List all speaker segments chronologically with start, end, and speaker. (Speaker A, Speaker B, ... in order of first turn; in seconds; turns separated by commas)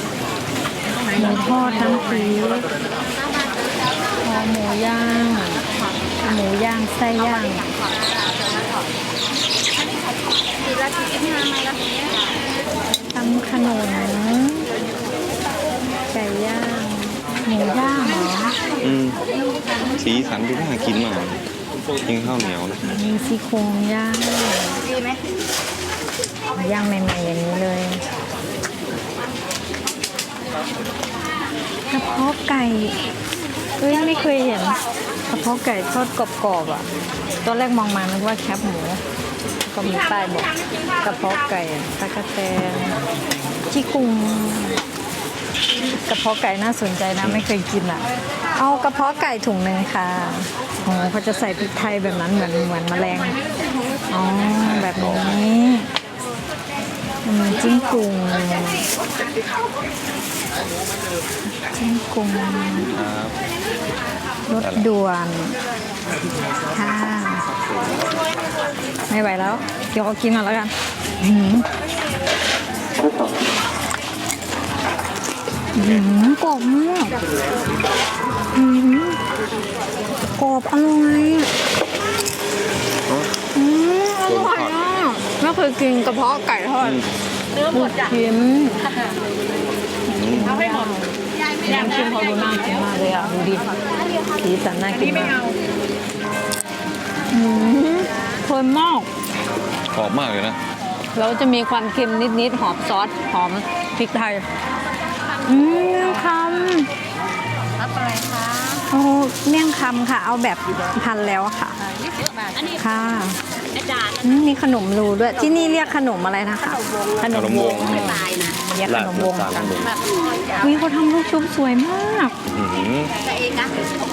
Speaker A: 1.1-2.7, Speaker A: 4.2-5.6, Speaker A: 6.2-7.7, Speaker B: 10.8-11.8, Speaker A: 13.1-14.7, Speaker A: 16.1-18.6, Speaker C: 18.8-19.2, Speaker C: 19.9-21.4, Speaker C: 21.9-22.8, Speaker A: 22.8-24.9, Speaker A: 26.5-28.0, Speaker A: 31.9-33.0, Speaker A: 33.8-34.8, Speaker A: 35.3-36.9, Speaker A: 37.4-39.0, Speaker A: 39.6-43.0, Speaker A: 43.7-44.8, Speaker A: 46.0-53.4, Speaker A: 54.1-55.9, Speaker C: 54.6-55.4, Speaker A: 57.2-58.9, Speaker A: 61.6-62.9, Speaker C: 62.9-63.4, Speaker A: 64.5-65.6, Speaker C: 64.6-64.9, Speaker A: 66.7-67.5, Speaker C: 67.7-68.1, Speaker A: 69.1-71.7, Speaker A: 75.8-77.2, Speaker A: 78.5-79.2, Speaker A: 80.3-81.5, Speaker C: 83.1-83.4, Speaker A: 83.5-87.0, Speaker C: 84.2-84.8, Speaker A: 87.7-88.9, Speaker C: 90.1-90.7, Speaker A: 90.1-93.7, Speaker A: 94.3-95.5, Speaker A: 97.3-99.1, Speaker C: 99.9-100.6, Speaker A: 101.1-104.5, Speaker A: 105.5-106.9, Speaker B: 107.8-108.8, Speaker A: 108.9-111.8, Speaker B: 112.1-112.7, Speaker A: 112.8-113.4, Speaker B: 113.8-114.2, Speaker A: 114.2-119.8, Speaker C: 117.3-118.3, Speaker B: 118.0-118.6, Speaker C: 118.8-120.0, Speaker B: 119.8-120.7, Speaker A: 120.6-122.4, Speaker C: 122.5-123.1, Speaker B: 123.2-123.9